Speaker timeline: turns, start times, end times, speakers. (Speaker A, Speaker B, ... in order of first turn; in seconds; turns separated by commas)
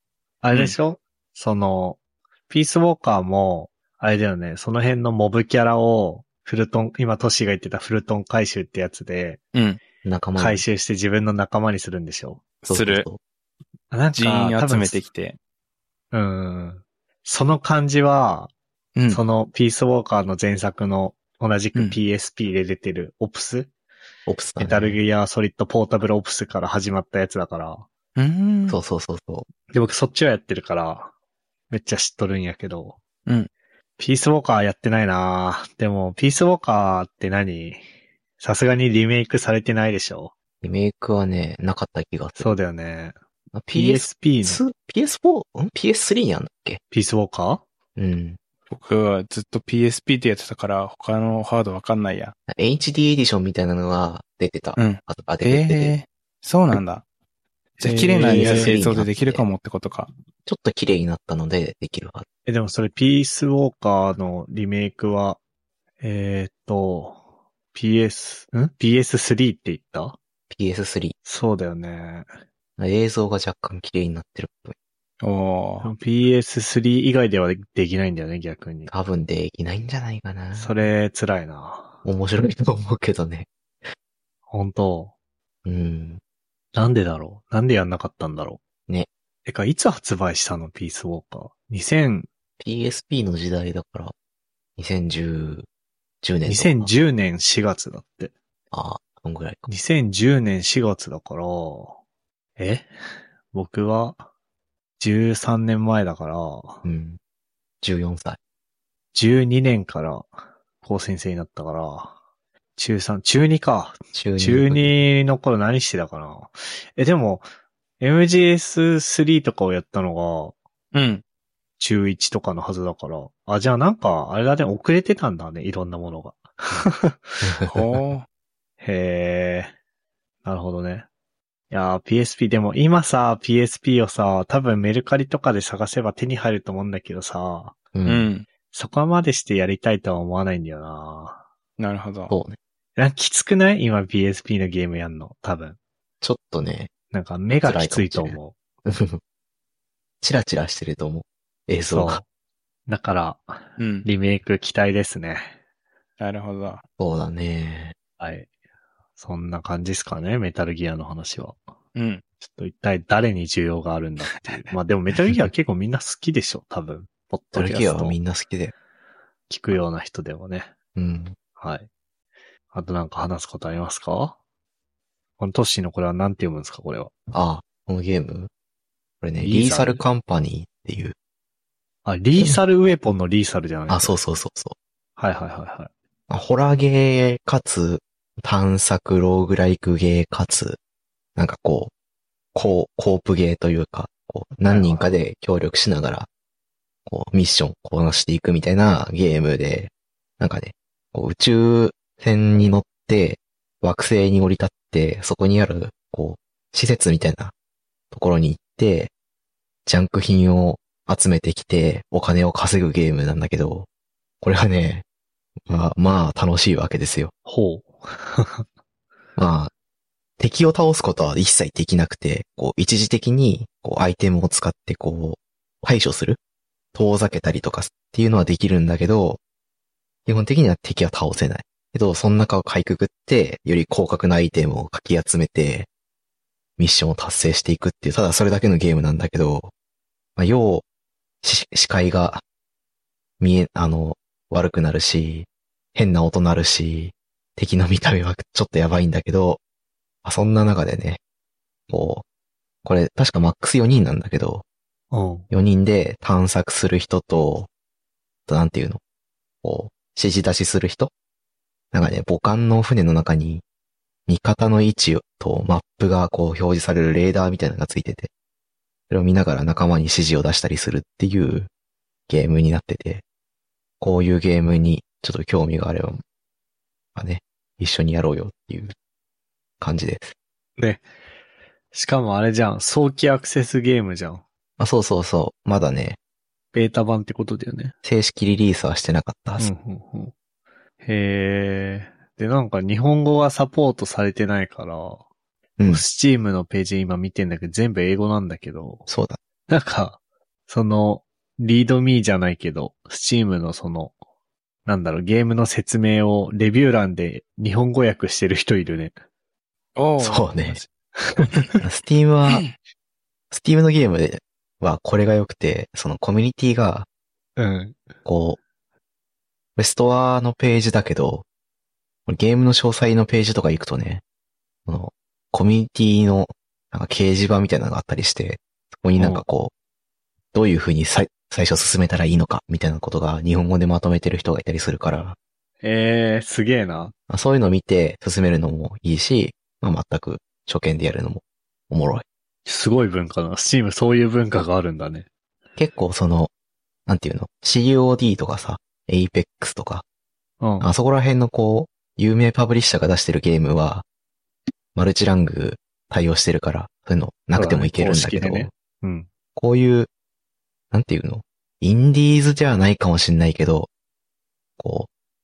Speaker A: 0.4-9.4, Speaker B: 9.5-9.8, Speaker C: 10.0-10.6, Speaker A: 10.3-12.4, Speaker B: 12.6-13.1, Speaker C: 12.7-13.2, Speaker A: 13.9-15.0, Speaker B: 14.1-15.4, Speaker A: 16.1-18.5, Speaker B: 18.9-19.2, Speaker A: 19.1-23.7, Speaker C: 24.3-25.0, Speaker A: 24.6-27.9, Speaker B: 28.2-28.8, Speaker C: 28.7-29.5, Speaker A: 29.7-31.1, Speaker A: 31.7-33.0, Speaker A: 34.0-37.8, Speaker A: 38.4-40.3, Speaker C: 40.6-42.5, Speaker A: 42.4-43.1, Speaker C: 43.5-46.8, Speaker A: 43.7-44.6, Speaker A: 46.9-47.6, Speaker C: 48.0-48.4, Speaker B: 48.7-52.3, Speaker C: 52.5-56.0, Speaker B: 54.8-57.0, Speaker B: 57.8-60.1, Speaker A: 57.8-58.7, Speaker C: 58.1-59.5, Speaker C: 60.5-62.2, Speaker A: 62.5-65.4, Speaker A: 66.0-67.2, Speaker A: 67.7-70.2, Speaker C: 70.5-71.2, Speaker A: 71.2-72.3, Speaker C: 72.8-74.7, Speaker B: 75.2-75.9, Speaker A: 75.8-78.9, Speaker C: 78.9-80.7, Speaker A: 80.5-82.0, Speaker C: 82.0-83.5, Speaker A: 84.5-85.1, Speaker C: 85.6-86.2, Speaker A: 86.7-88.6, Speaker A: 89.5-92.3, Speaker C: 92.6-94.1, Speaker C: 94.8-95.7, Speaker C: 96.2-96.9, Speaker A: 96.4-98.3, Speaker C: 98.7-99.7, Speaker A: 99.7-102.0, Speaker A: 102.6-102.9, Speaker A: 103.5-104.2, Speaker A: 105.0-106.8, Speaker C: 106.8-107.2, Speaker C: 107.8-108.4, Speaker A: 109.1-110.3, Speaker A: 110.8-112.1, Speaker A: 112.8-117.5, Speaker C: 114.1-114.9, Speaker A: 118.0-120.5, Speaker B: 120.9-121.2, Speaker A: 121.8-127.5, Speaker C: 127.4-127.7, Speaker B: 127.7-128.2, Speaker A: 128.8-129.7, Speaker A: 130.4-131.1, Speaker A: 131.7-137.8, Speaker C: 137.9-138.3, Speaker B: 138.1-138.4, Speaker A: 138.7-141.4, Speaker B: 141.8-142.3, Speaker C: 142.3-142.6, Speaker A: 143.0-145.8, Speaker C: 146.2-146.9, Speaker A: 147.1-148.6, Speaker C: 147.6-149.2, Speaker C: 150.2-152.2, Speaker A: 151.9-152.2, Speaker A: 152.9-155.6, Speaker B: 153.8-154.1, Speaker B: 156.2-156.8, Speaker C: 157.0-157.9, Speaker A: 158.2-158.5, Speaker A: 159.2-161.6, Speaker B: 161.9-162.2, Speaker A: 162.4-168.2, Speaker C: 167.5-168.7, Speaker A: 169.5-170.7, Speaker C: 170.9-171.3, Speaker A: 171.6-171.9, Speaker A: 172.7-174.4, Speaker A: 175.4-177.1, Speaker C: 177.3-178.5, Speaker C: 179.2-181.1, Speaker A: 179.4-180.0, Speaker A: 182.0-184.2, Speaker C: 183.9-184.7, Speaker A: 185.2-185.9, Speaker C: 186.3-190.8, Speaker C: 191.3-191.9, Speaker C: 192.5-196.3, Speaker A: 194.7-195.1, Speaker C: 197.1-207.5, Speaker C: 208.1-209.1, Speaker C: 209.8-213.9, Speaker C: 214.4-215.0, Speaker C: 215.7-217.3, Speaker A: 217.4-218.6, Speaker C: 219.3-219.7, Speaker C: 220.4-226.4, Speaker C: 226.9-229.4, Speaker C: 230.2-235.9, Speaker C: 236.8-239.7, Speaker C: 240.3-240.8, Speaker C: 241.4-242.4, Speaker C: 243.4-249.6, Speaker C: 250.2-251.2, Speaker C: 251.9-252.2, Speaker C: 252.8-254.6, Speaker A: 255.1-255.4, Speaker C: 255.5-257.7, Speaker C: 258.5-259.0, Speaker C: 259.6-261.1, Speaker C: 261.9-263.6, Speaker C: 264.3-268.3, Speaker C: 269.1-271.7, Speaker C: 272.3-273.2, Speaker C: 274.0-276.2, Speaker C: 277.1-278.9, Speaker C: 279.8-280.3, Speaker A: 280.8-281.0, Speaker A: 281.9-284.4, Speaker C: 284.8-286.2, Speaker A: 286.7-287.9, Speaker C: 288.0-289.7, Speaker A: 289.6-290.3, Speaker A: 291.0-295.2, Speaker C: 295.8-296.0, Speaker A: 295.9-299.1, Speaker C: 299.1-299.4, Speaker A: 299.7-304.1, Speaker A: 304.9-309.1, Speaker B: 309.9-310.9, Speaker C: 310.2-310.8, Speaker A: 311.2-311.6, Speaker C: 311.8-312.6, Speaker C: 313.5-317.1, Speaker A: 317.6-318.0, Speaker C: 318.2-318.6, Speaker C: 319.8-321.4, Speaker C: 322.3-324.2, Speaker C: 324.9-329.7, Speaker A: 329.1-329.4, Speaker C: 330.5-335.4, Speaker A: 335.8-337.1, Speaker C: 337.3-342.2, Speaker A: 342.6-345.3, Speaker C: 345.8-346.5, Speaker C: 347.1-350.0, Speaker A: 350.6-350.9, Speaker C: 350.8-354.0, Speaker C: 354.9-358.7, Speaker A: 357.5-359.3, Speaker C: 359.6-360.1, Speaker C: 360.9-363.9, Speaker C: 364.8-365.1